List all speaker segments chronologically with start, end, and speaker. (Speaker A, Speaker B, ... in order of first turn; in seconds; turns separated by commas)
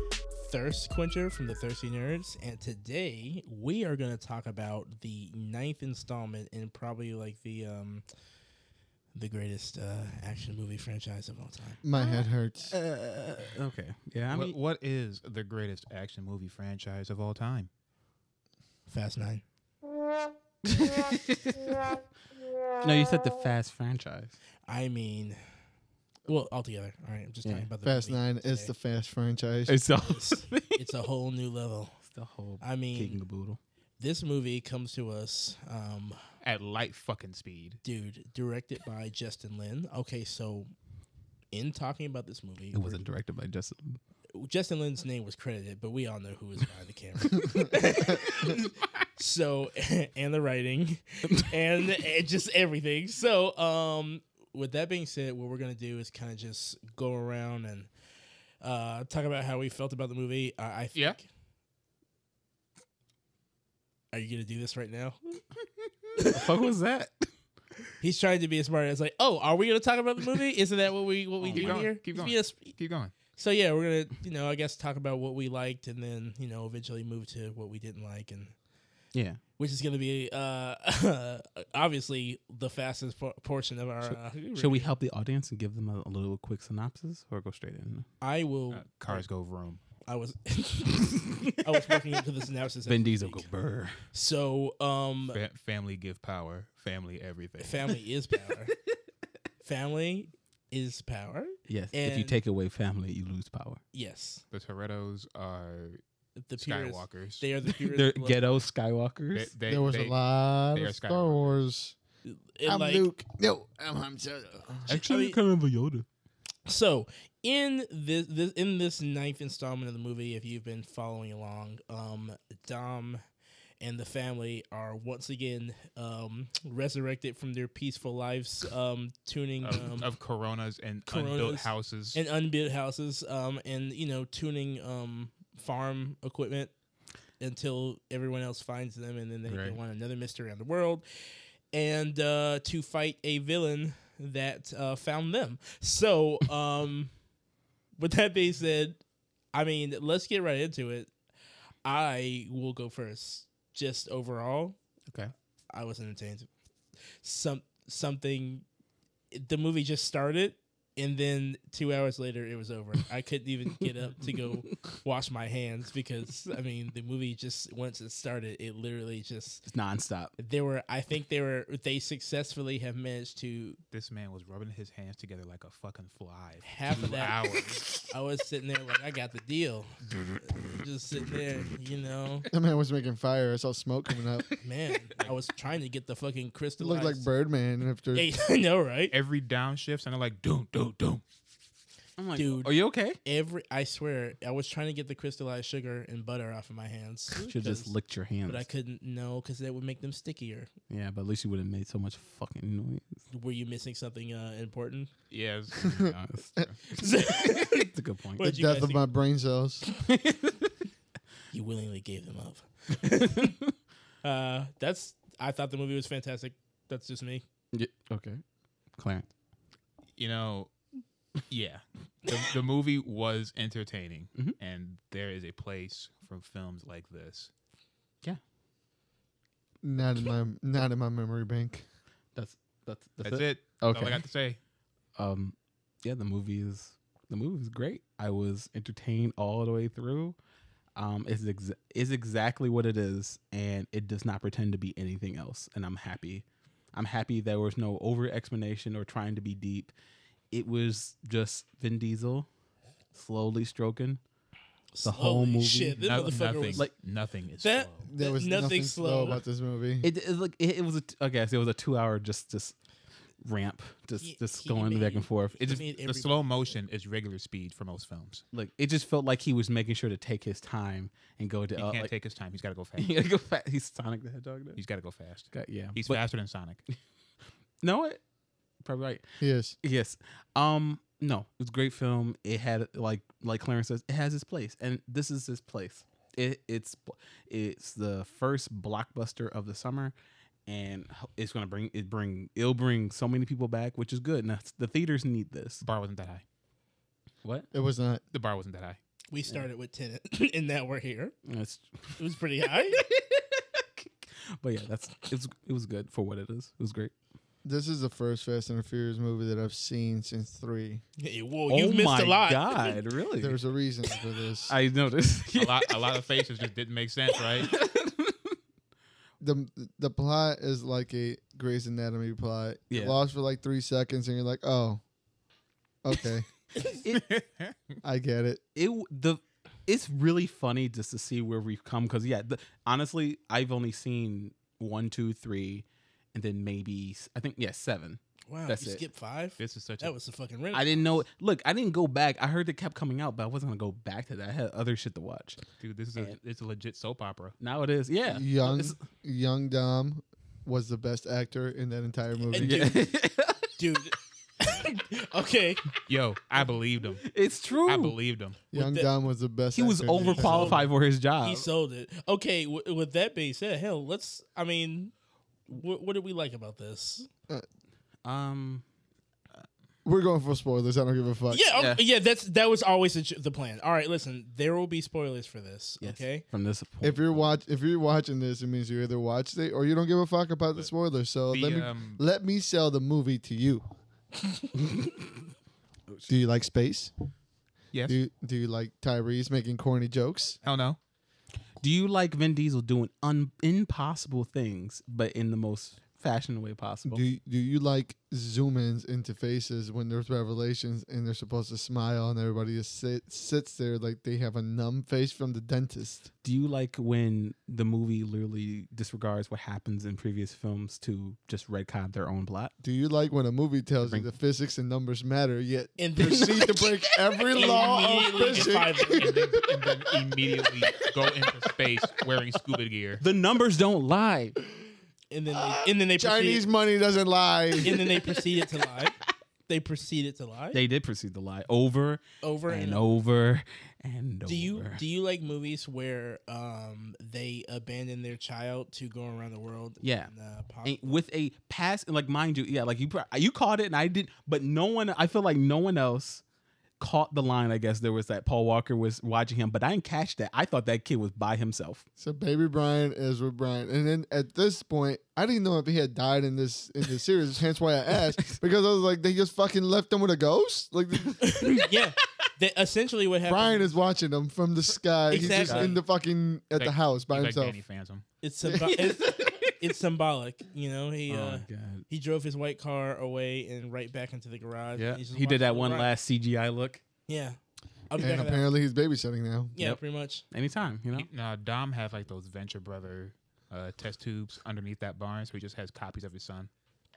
Speaker A: 0.4-8.0, Speaker A: 9.1-11.8, Speaker B: 11.8-12.7, Speaker C: 12.0-14.5, Speaker D: 14.3-17.7, Speaker A: 18.9-19.4, Speaker C: 20.6-21.8, Speaker C: 22.8-24.3, Speaker A: 24.7-25.4, Speaker A: 26.3-28.7, Speaker B: 27.8-29.8, Speaker C: 29.7-30.9, Speaker A: 30.0-31.9, Speaker C: 32.1-33.6, Speaker A: 32.6-33.2, Speaker A: 34.0-36.2, Speaker D: 36.4-37.8, Speaker A: 37.8-40.7, Speaker A: 41.5-43.0, Speaker C: 42.7-44.0, Speaker A: 44.3-57.9, Speaker C: 47.5-48.6, Speaker A: 58.6-61.2, Speaker A: 64.1-65.4, Speaker A: 66.2-66.5, Speaker C: 66.2-67.3, Speaker A: 68.0-72.7, Speaker D: 71.4-73.1, Speaker C: 71.5-71.9, Speaker A: 73.3-78.5, Speaker C: 79.1-79.4, Speaker A: 79.6-84.9, Speaker C: 84.1-88.1, Speaker A: 88.2-89.2, Speaker D: 88.7-89.8, Speaker A: 90.0-93.5, Speaker C: 92.9-94.0, Speaker A: 94.1-95.4, Speaker D: 95.3-97.8, Speaker A: 97.6-98.7, Speaker A: 99.6-102.4, Speaker C: 101.7-103.8, Speaker A: 103.9-104.4, Speaker D: 104.5-106.0, Speaker A: 106.3-108.4, Speaker D: 106.6-107.4, Speaker C: 107.9-109.5, Speaker D: 109.3-110.2, Speaker B: 109.7-112.0, Speaker D: 110.7-111.6, Speaker A: 112.2-113.1, Speaker B: 112.6-115.0, Speaker C: 114.9-116.0, Speaker A: 115.1-115.4, Speaker A: 116.7-123.2, Speaker A: 123.8-130.1, Speaker D: 129.6-132.2, Speaker A: 131.1-136.7, Speaker A: 137.4-141.0, Speaker C: 139.5-139.8, Speaker A: 141.7-147.1, Speaker A: 148.0-149.0, Speaker A: 149.5-151.1, Speaker A: 151.8-154.8, Speaker A: 155.7-156.5, Speaker A: 157.2-158.6, Speaker A: 159.3-169.6, Speaker C: 169.7-170.3, Speaker A: 170.4-173.8, Speaker D: 173.9-177.9, Speaker A: 176.6-177.4, Speaker A: 178.1-182.5, Speaker B: 182.5-184.5, Speaker A: 184.6-187.2, Speaker B: 186.8-188.3, Speaker A: 188.1-189.1, Speaker D: 189.1-191.2, Speaker C: 192.2-193.2, Speaker A: 192.3-192.7, Speaker A: 193.2-197.9, Speaker C: 197.4-198.6, Speaker A: 198.5-200.7, Speaker C: 200.9-203.2, Speaker A: 203.3-205.1, Speaker D: 205.3-206.8, Speaker C: 205.9-208.5, Speaker A: 206.9-209.0, Speaker B: 208.4-209.8, Speaker C: 210.1-210.7, Speaker A: 211.5-213.6, Speaker A: 214.2-217.4, Speaker C: 217.7-218.4, Speaker C: 219.0-219.2, Speaker D: 220.2-220.7, Speaker D: 221.5-227.5, Speaker B: 229.8-231.8, Speaker C: 232.3-234.2, Speaker D: 233.2-234.6, Speaker C: 235.2-240.3, Speaker C: 240.9-249.9, Speaker C: 250.5-252.5, Speaker C: 253.1-254.2, Speaker A: 254.9-256.9, Speaker C: 255.0-256.9, Speaker D: 256.0-258.1, Speaker A: 257.6-259.4, Speaker B: 258.1-260.1, Speaker C: 260.0-262.7, Speaker C: 263.4-265.9, Speaker A: 264.2-266.4, Speaker D: 266.0-268.4, Speaker C: 268.5-272.1, Speaker D: 271.8-273.1, Speaker C: 273.0-274.8, Speaker D: 274.8-276.8, Speaker C: 275.5-276.2, Speaker C: 277.8-278.2, Speaker C: 278.8-279.2, Speaker B: 279.4-279.7, Speaker C: 279.8-290.1, Speaker C: 290.7-295.8, Speaker D: 295.8-296.4, Speaker B: 297.7-298.2, Speaker D: 298.3-299.0, Speaker A: 299.3-301.3, Speaker C: 301.4-302.2, Speaker A: 302.2-303.0, Speaker C: 302.9-307.1, Speaker B: 307.6-311.0, Speaker A: 311.2-312.9, Speaker C: 311.7-313.6, Speaker B: 313.4-314.7, Speaker C: 314.7-316.2, Speaker D: 315.5-317.7, Speaker C: 317.4-318.6, Speaker B: 319.4-325.0, Speaker C: 322.9-323.2, Speaker B: 326.0-326.4, Speaker D: 327.1-328.0, Speaker B: 328.0-328.6, Speaker C: 328.7-339.0, Speaker A: 338.5-341.2, Speaker D: 339.6-340.1, Speaker C: 340.7-345.6, Speaker D: 345.8-347.5, Speaker C: 347.6-349.0, Speaker B: 348.3-352.9, Speaker A: 352.5-353.1, Speaker C: 352.6-353.7, Speaker A: 353.8-355.8, Speaker D: 356.1-357.3, Speaker C: 357.2-358.2, Speaker D: 357.9-358.6, Speaker B: 358.7-360.9, Speaker A: 358.7-359.1, Speaker C: 359.7-361.7, Speaker A: 360.1-365.1, Speaker A: 365.7-367.3, Speaker C: 368.2-368.8, Speaker B: 370.0-371.7, Speaker A: 371.5-376.4, Speaker C: 371.7-372.0, Speaker C: 376.0-377.3, Speaker B: 377.0-383.8, Speaker D: 381.5-382.2, Speaker C: 384.7-385.3, Speaker B: 386.3-387.1, Speaker B: 388.1-390.6, Speaker D: 390.6-391.0, Speaker C: 391.8-397.2, Speaker B: 397.1-406.3, Speaker C: 406.4-412.7, Speaker B: 412.8-419.9, Speaker A: 416.0-416.9, Speaker C: 416.3-416.6, Speaker A: 417.5-419.3, Speaker D: 418.5-423.2, Speaker C: 423.2-424.6, Speaker A: 425.3-426.6, Speaker B: 426.1-428.0, Speaker C: 427.8-428.2, Speaker A: 427.8-430.8, Speaker C: 430.7-435.0, Speaker A: 432.4-433.1, Speaker A: 434.4-441.2, Speaker C: 440.0-440.3, Speaker C: 440.8-446.4, Speaker C: 447.0-452.0, Speaker B: 452.2-461.5, Speaker A: 461.4-463.9, Speaker B: 463.5-467.8, Speaker A: 465.3-466.0, Speaker C: 465.4-466.0, Speaker D: 466.8-468.2, Speaker A: 468.4-476.1, Speaker B: 468.6-469.0, Speaker C: 469.1-469.6, Speaker C: 471.3-472.0, Speaker C: 475.0-477.0, Speaker A: 477.3-477.6, Speaker A: 478.1-478.7, Speaker B: 478.2-479.8, Speaker A: 479.8-480.4, Speaker C: 480.5-481.3, Speaker D: 481.1-486.7